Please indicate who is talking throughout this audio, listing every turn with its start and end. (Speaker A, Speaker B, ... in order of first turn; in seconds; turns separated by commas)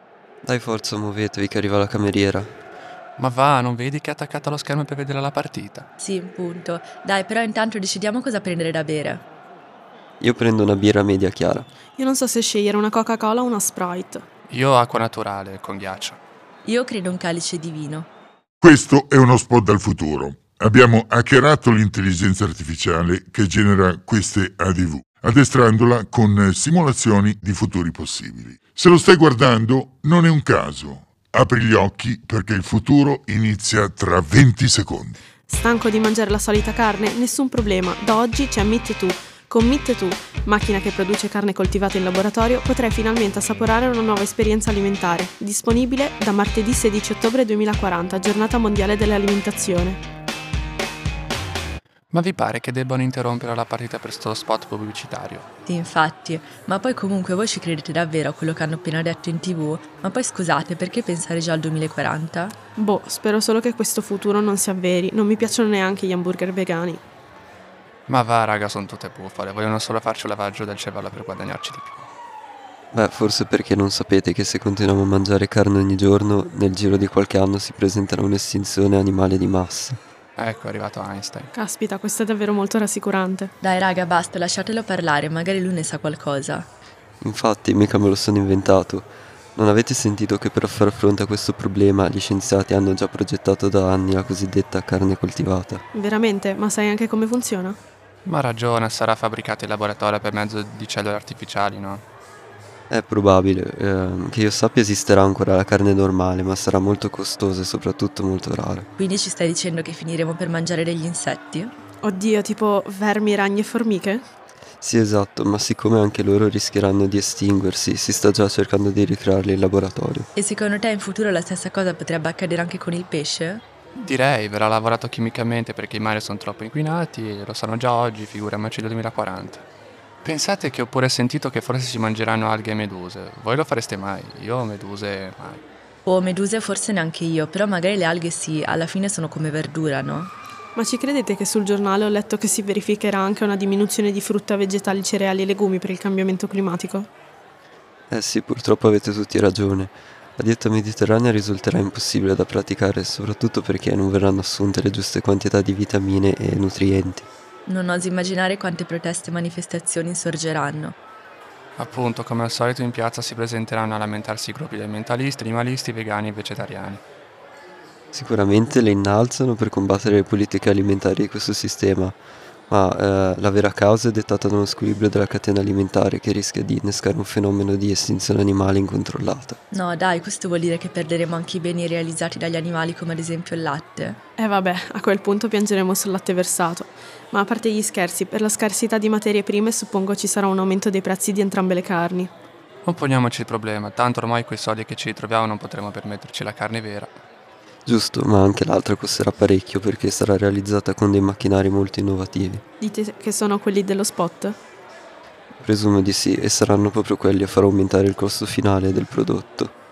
Speaker A: 0.4-2.5, Speaker B: 3.2-5.9, Speaker C: 6.0-9.2, Speaker A: 10.2-11.7, Speaker D: 12.0-14.2, Speaker B: 14.5-16.2, Speaker C: 16.6-18.1, Speaker E: 18.6-35.2, Speaker D: 35.5-50.0, Speaker B: 52.1-55.5, Speaker C: 55.6-62.5, Speaker D: 62.8-67.0, Speaker B: 68.1-72.0, Speaker A: 72.9-80.0, Speaker B: 80.4-81.5, Speaker D: 81.5-83.5, Speaker C: 83.6-86.7, Speaker A: 87.2-95.8, Speaker D: 95.9-97.8, Speaker B: 98.2-102.0, Speaker A: 102.9-108.9, Speaker C: 109.0-111.7, Speaker D: 112.0-114.2, Speaker A: 114.8-120.3, Speaker C: 120.3-123.6, Speaker B: 123.9-129.6, Speaker B: 130.2-135.6, Speaker C: 136.1-140.3, Speaker D: 140.8-147.1, Speaker A: 148.1-157.3, Speaker C: 157.7-160.9, Speaker B: 161.8-167.0, Speaker A: 168.1-172.2, Speaker A: 172.7-179.6, Speaker C: 179.7-184.2, Speaker D: 184.4-192.3, Speaker B: 192.8-197.2, Speaker A: 197.8-202.6, Speaker D: 202.8-204.6, Speaker A: 205.6-209.7